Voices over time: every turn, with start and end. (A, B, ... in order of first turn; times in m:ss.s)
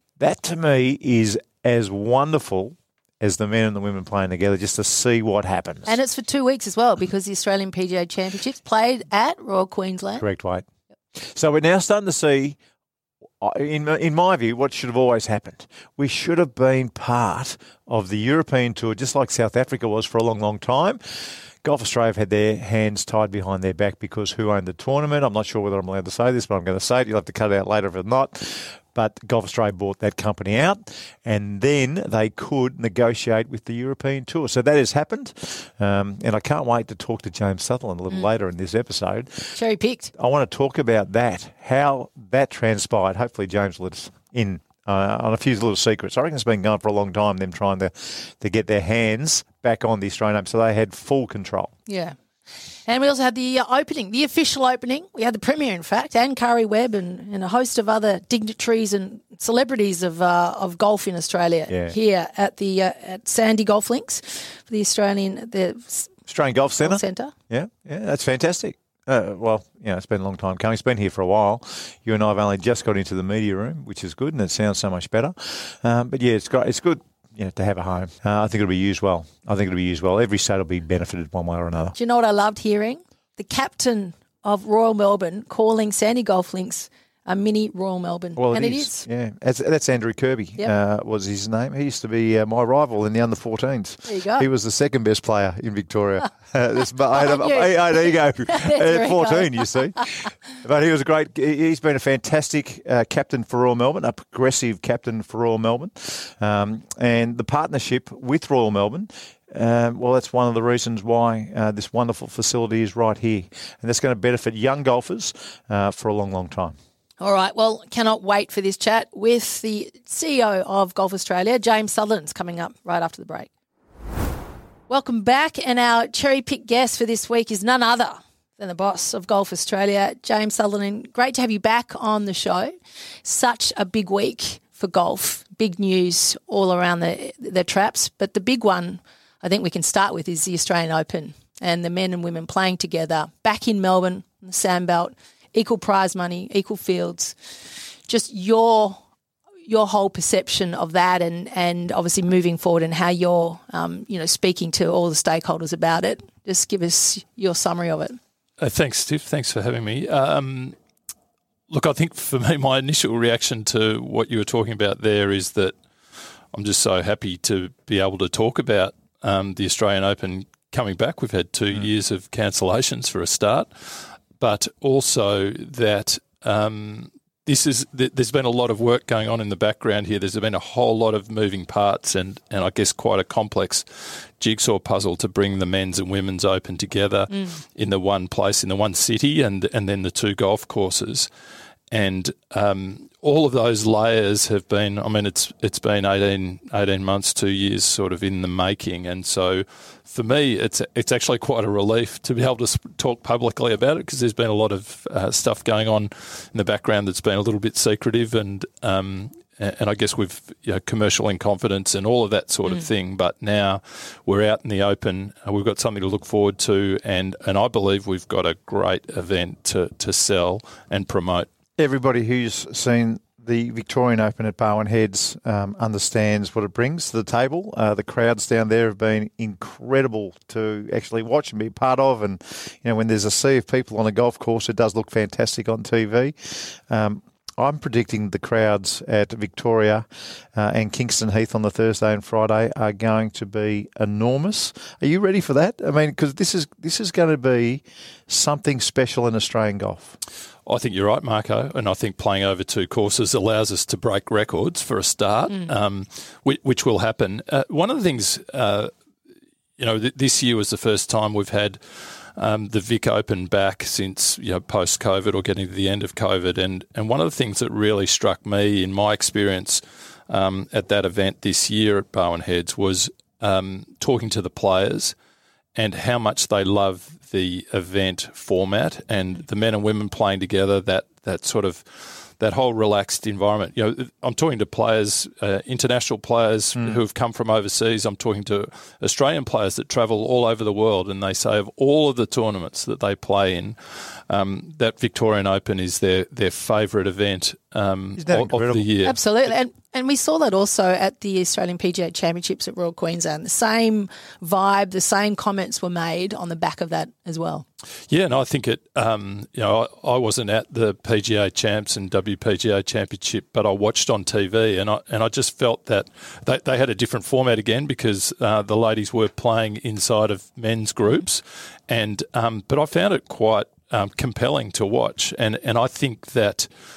0:00.2-0:06.0 A
0:05.9-0:10.2 B
0:10.2-0:12.6 A
0:13.4-0:39.6 A
0:39.6-0:40.1 B
0:40.1-0:51.7 A
0:51.9-0:52.2 B
0:52.8-1:06.1 B
1:01.7-1:01.9 A
1:06.3-1:22.0 A
1:06.8-1:07.3 B
1:22.0-1:29.1 B
1:28.4-1:56.8 A
1:34.1-1:34.5 B
1:37.1-1:39.7 B
1:57.2-2:03.5 B
2:04.9-2:27.4 B
2:28.1-2:29.0 B
2:29.7-2:38.2 B
2:38.6-2:40.8 C
2:41.7-2:45.8 C
2:46.5-3:11.3 C
3:11.9-3:41.5 C
3:41.8-4:10.2 A
4:10.7-4:18.9 C
4:19.8-4:35.2 C
4:35.8-4:59.2 C
4:58.2-4:58.8 A
4:59.0-5:07.6 B
5:08.1-5:26.7 C